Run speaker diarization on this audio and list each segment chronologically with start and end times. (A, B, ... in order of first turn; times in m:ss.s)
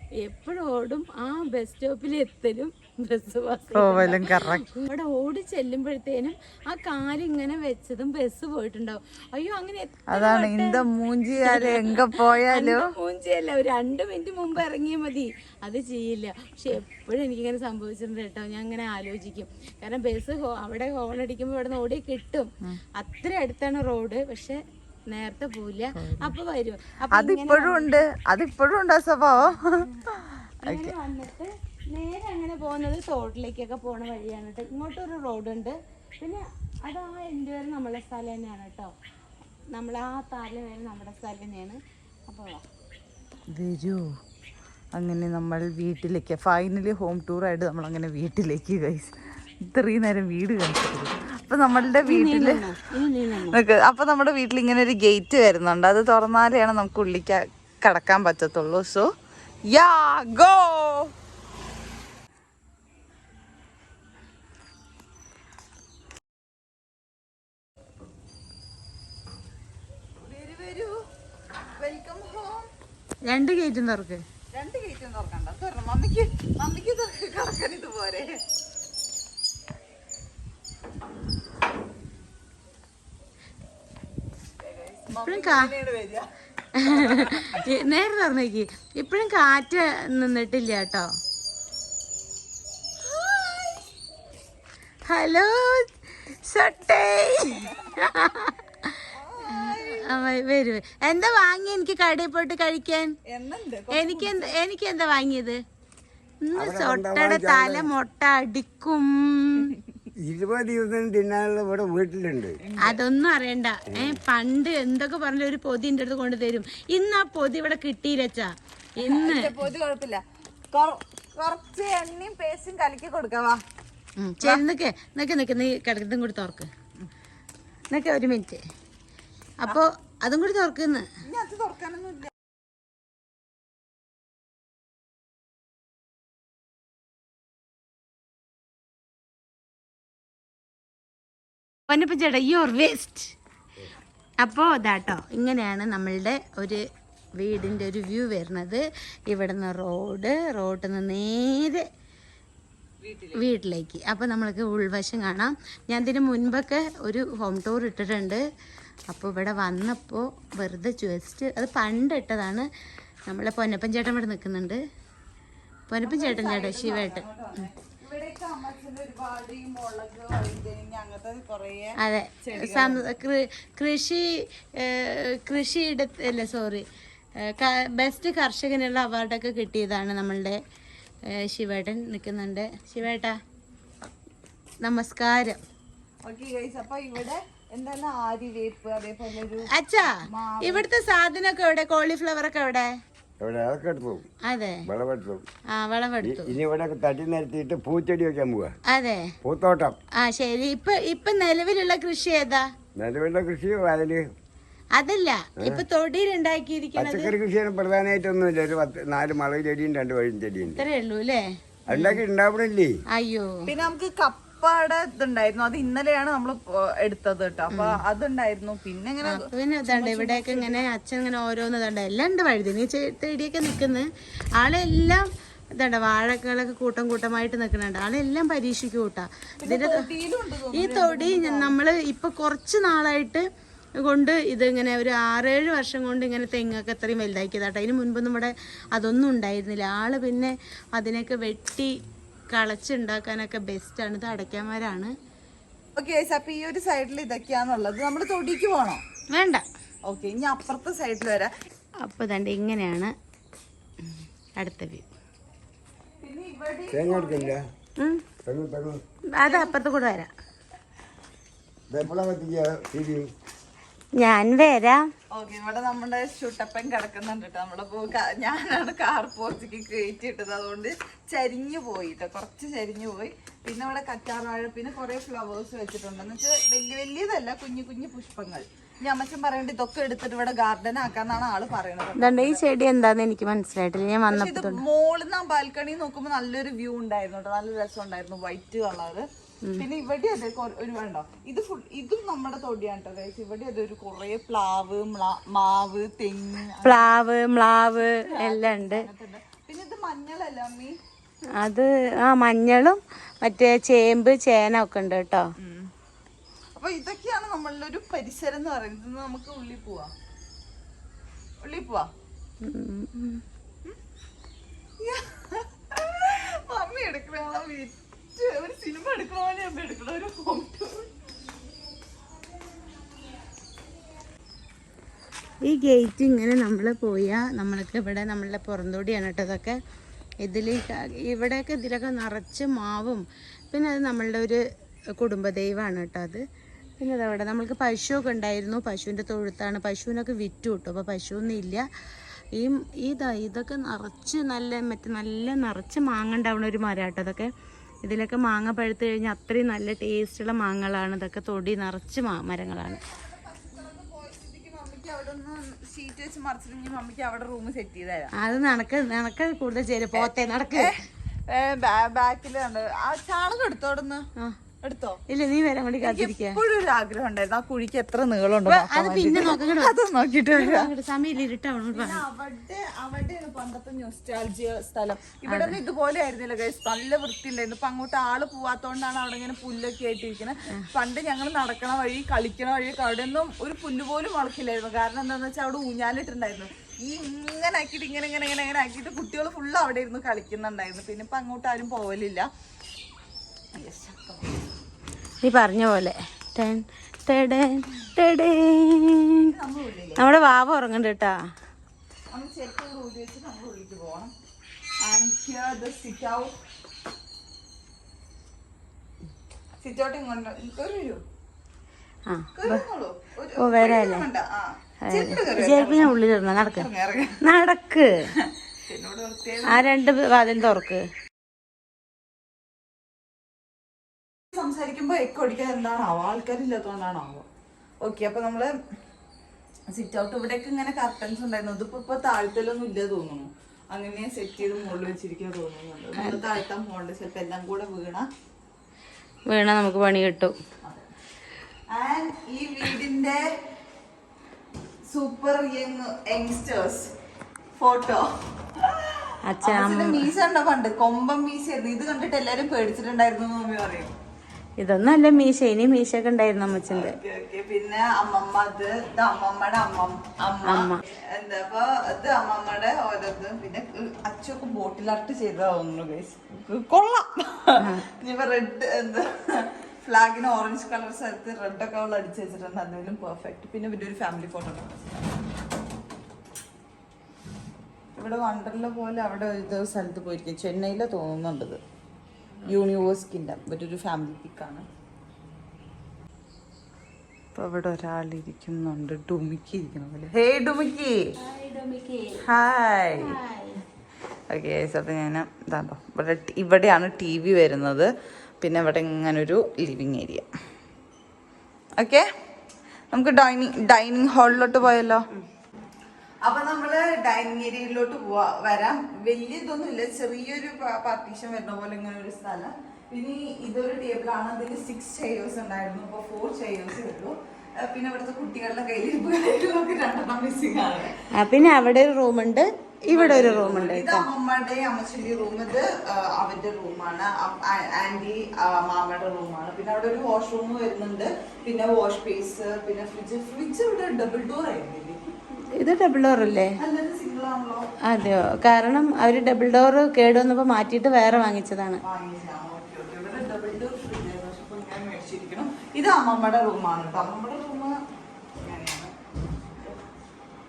0:00.2-0:10.8 A
0:03.7-0:04.6 B
0:10.1-0:12.8 B
0:11.4-0:28.0 A
0:26.0-0:26.4 B
0:27.2-0:31.0 B
0:30.6-0:38.9 A
0:39.7-0:42.6 A
0:43.5-0:44.1 B
0:44.9-0:52.6 B
0:52.0-0:53.6 A
0:53.5-0:59.1 B
0:59.7-1:01.1 B
1:10.2-1:10.9 B
1:11.8-1:12.7 B
1:13.3-1:14.2 A
1:14.5-1:18.3 B
1:24.6-1:26.2 B
1:25.2-1:25.7 A
1:26.8-1:31.1 A
1:26.9-1:27.6 B
1:33.0-1:33.8 B
1:35.1-1:35.8 A
1:36.4-1:38.6 A
1:39.1-1:40.1 B
1:39.5-1:43.1 A
1:43.3-1:44.5 B
1:43.9-1:45.6 A
1:46.4-1:49.7 A
1:46.6-1:47.9 C
1:50.2-1:52.6 C
1:52.6-1:53.0 B
1:52.8-1:59.5 A
1:59.0-2:03.6 B
2:04.2-2:06.7 A
2:07.9-2:08.6 A
2:09.6-2:11.0 A
2:11.2-2:12.3 B
2:21.9-2:23.4 A
2:24.4-2:26.8 A
2:27.4-2:31.8 A
2:33.0-2:33.4 B
2:33.4-2:38.4 A
2:39.1-2:42.7 A
2:43.3-2:44.8 A
2:45.9-2:47.2 A
2:46.0-2:53.0 B
2:52.0-2:54.3 A
2:54.8-2:56.8 A
2:57.4-3:00.6 A
3:01.4-3:03.4 A
3:04.8-3:05.6 A
3:06.2-3:10.8 B
3:09.7-3:10.1 A
3:10.6-3:12.9 A
3:13.4-3:14.2 C
3:14.5-3:14.8 A
3:14.9-3:15.4 C
3:15.8-3:16.5 A
3:16.2-3:18.7 C
3:18.9-3:19.3 A
3:19.4-3:19.9 C
3:20.2-3:22.6 A
3:23.0-3:24.2 C
3:25.0-3:27.3 A
3:27.0-3:30.8 C
3:30.7-3:32.2 A
3:31.9-3:32.9 C
3:33.1-3:33.6 A
3:33.7-3:40.8 B
3:37.7-3:38.0 A
3:39.3-3:44.1 A
3:44.6-3:45.2 A
3:45.8-3:50.0 A
3:49.6-3:51.8 B
3:50.7-3:53.4 A
3:54.0-4:01.9 A
4:02.5-4:05.1 A
4:06.0-4:09.0 B
4:09.3-4:09.6 A
4:10.0-4:11.5 B
4:12.0-4:13.1 A
4:14.6-4:15.0 A
4:16.2-4:17.6 B
4:16.9-4:17.6 C
4:18.4-4:19.0 C
4:19.4-4:20.3 A
4:19.5-4:19.7 B
4:21.9-4:23.3 C
4:24.2-4:25.0 A
4:25.3-4:42.6 B
4:42.2-4:44.8 A
4:44.3-4:49.3 B
4:49.8-4:57.0 B
4:56.8-4:59.0 A
4:58.0-5:01.0 B
5:01.6-5:05.5 A
5:05.6-5:05.9 B
5:06.8-5:10.1 B
5:11.6-5:12.1 B
5:12.6-5:13.4 A
5:15.0-5:21.1 B
5:25.6-5:29.8 A
5:30.4-5:34.6 A
5:35.2-5:36.4 A
5:37.0-5:41.8 A
5:42.6-5:47.5 A
5:48.0-5:53.0 A
5:52.8-5:58.3 B
5:58.4-6:00.9 A
6:00.1-6:01.0 B
6:01.5-6:04.2 B
6:04.8-6:05.2 B
6:05.3-6:06.6 A
6:06.0-6:10.9 B
6:08.6-6:09.9 A
6:10.5-6:12.2 A
6:11.9-6:32.5 B
6:15.5-6:15.8 A
6:33.7-6:34.6 B
6:35.4-6:39.5 A
6:39.5-6:40.2 B
6:40.2-6:41.3 A
6:42.3-6:44.3 B
6:45.0-6:46.5 B
6:49.8-6:51.2 B
6:52.3-6:52.8 A
6:52.5-6:56.1 B
6:53.6-6:54.2 A
6:55.1-6:56.9 A
6:56.6-6:57.4 B
6:57.4-6:58.1 A
6:58.4-6:59.9 B
6:59.7-7:01.0 A
7:04.5-7:07.4 B
7:08.0-7:08.7 B
7:09.9-7:18.3 B
7:16.2-7:16.4 A
7:19.5-7:20.5 A
7:21.9-7:23.4 B
7:25.1-7:27.1 B
7:27.8-7:34.1 B
7:29.4-7:30.3 A
7:34.8-7:37.1 A
7:36.9-7:55.2 B
7:40.6-7:41.0 A
7:47.8-7:48.0 A
7:58.2-8:01.8 B
8:02.7-8:04.8 B
8:07.6-8:11.2 B
8:11.4-8:12.4 A
8:12.4-8:13.3 B
8:13.2-8:13.8 A
8:14.5-8:18.1 B
8:18.6-8:20.5 B
8:22.0-8:22.2 B
8:23.1-8:25.2 B
8:26.4-8:41.1 B
8:41.4-8:44.3 A
8:43.1-8:55.3 B
8:55.8-8:56.7 A
8:56.8-8:57.8 B
8:58.1-9:02.0 A
9:02.0-9:07.9 B
9:08.6-9:09.1 B